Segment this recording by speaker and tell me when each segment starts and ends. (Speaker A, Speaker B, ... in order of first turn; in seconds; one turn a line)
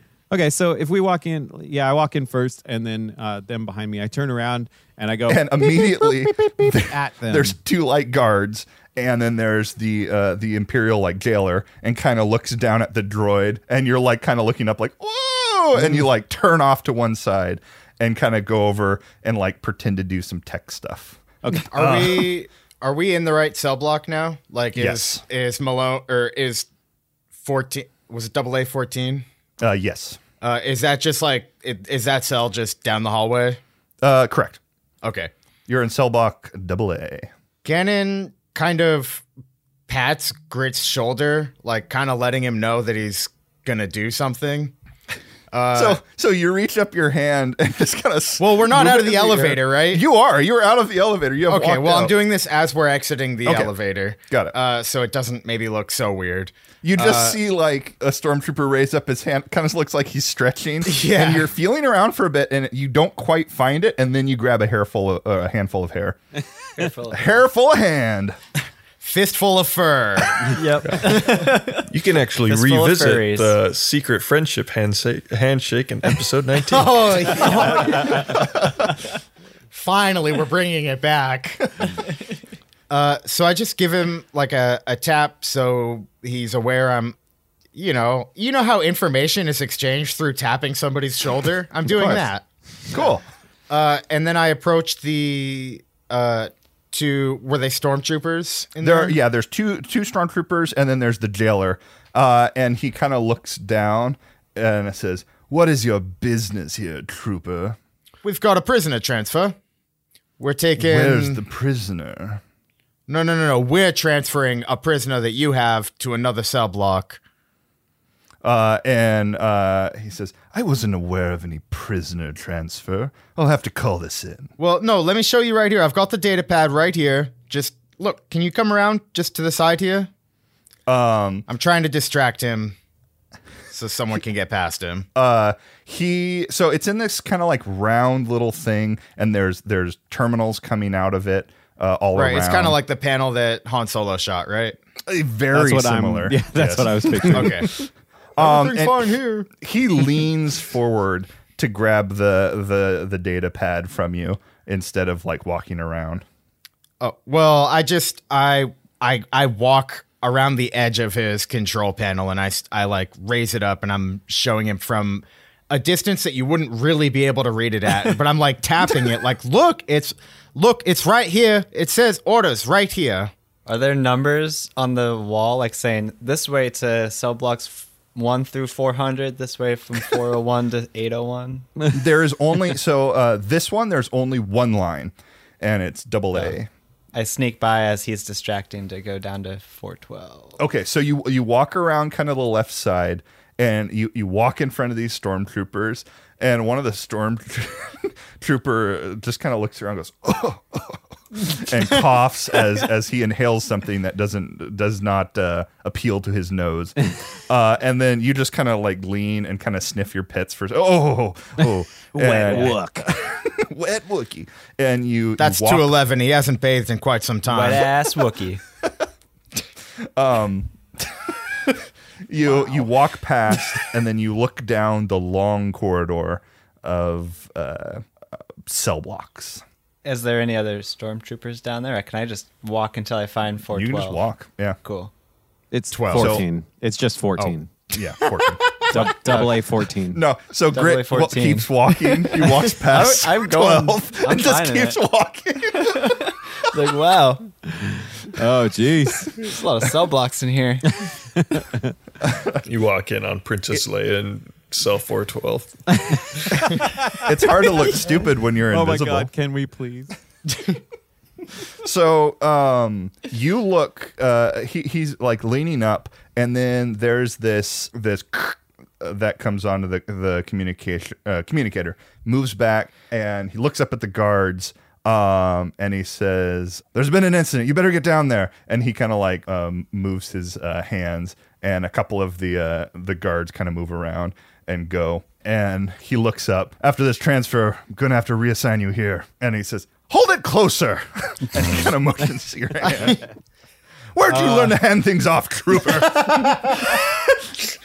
Speaker A: 0.3-7.5
Speaker B: 5.3-21.2
Speaker A: 21.4-21.7
Speaker C: 21.7-26.7
Speaker B: 21.7-22.3
Speaker B: 24.7-25.2
Speaker C: 27.4-29.2
Speaker B: 29.6-30.2
Speaker C: 30.4-33.6
Speaker B: 34.0-34.6
Speaker C: 35.0-35.3
Speaker B: 35.7-37.3
Speaker C: 37.6-39.2
Speaker C: 39.9-44.7
Speaker C: 45.5-46.0
Speaker B: 45.7-52.2
Speaker C: 48.4-50.0
Speaker C: 51.5-57.4
Speaker B: 53.4-53.7
Speaker B: 54.3-54.5
Speaker B: 56.8-66.2
Speaker C: 60.9-61.5
Speaker D: 66.8-67.4
Speaker B: 67.1-68.4
Speaker C: 69.0-70.6
Speaker D: 70.5-71.9
Speaker E: 70.8-71.2
Speaker E: 71.8-77.5
Speaker D: 72.5-73.5
Speaker C: 76.7-78.6
Speaker B: 78.3-78.7
Speaker C: 79.7-81.9
Speaker C: 82.9-87.2
Speaker C: 87.7-93.1
Speaker A: 91.9-92.2
Speaker B: 92.9-93.2
Speaker C: 93.7-99.2
Speaker B: 98.8-107.8
Speaker C: 108.2-109.5
Speaker C: 110.4-111.4
Speaker B: 110.8-112.4
Speaker C: 113.1-117.2
Speaker B: 118.4-124.5
Speaker C: 124.6-130.1
Speaker B: 130.9-131.5
Speaker C: 131.5-132.8
Speaker C: 133.7-135.1
Speaker B: 135.1-142.8
Speaker C: 142.1-144.8
Speaker B: 145.1-147.8
Speaker A: 145.5-147.7
Speaker C: 147.3-147.8
Speaker B: 148.4-156.2
Speaker C: 148.4-149.5
Speaker C: 157.0-173.3
Speaker D: 173.7-181.7
Speaker B: 181.9-186.7
Speaker D: 187.1-190.6
Speaker B: 190.6-216.0
Speaker A: 212.1-213.1
Speaker C: 215.4-217.9
Speaker D: 217.5-218.6
Speaker B: 220.1-221.1
Speaker B: 222.3-228.1
Speaker B: 228.7-229.6
Speaker D: 230.0-234.2
Speaker B: 233.7-234.8
Speaker D: 234.8-235.1
Speaker A: 235.7-237.7
Speaker C: 235.9-236.4
Speaker B: 236.1-236.4
Speaker B: 237.9-239.5
Speaker A: 238.9-240.2
Speaker D: 238.9-239.6
Speaker B: 240.1-246.2
Speaker D: 240.7-245.0
Speaker D: 245.8-247.5
Speaker A: 248.3-249.3
Speaker D: 249.3-250.9
Speaker A: 251.0-251.9
Speaker B: 252.2-252.6
Speaker E: 252.6-256.7
Speaker A: 256.7-257.1
Speaker B: 257.1-259.3
Speaker A: 258.7-260.1
Speaker B: 261.8-293.3
Speaker B: 294.1-296.9
Speaker C: 294.3-294.7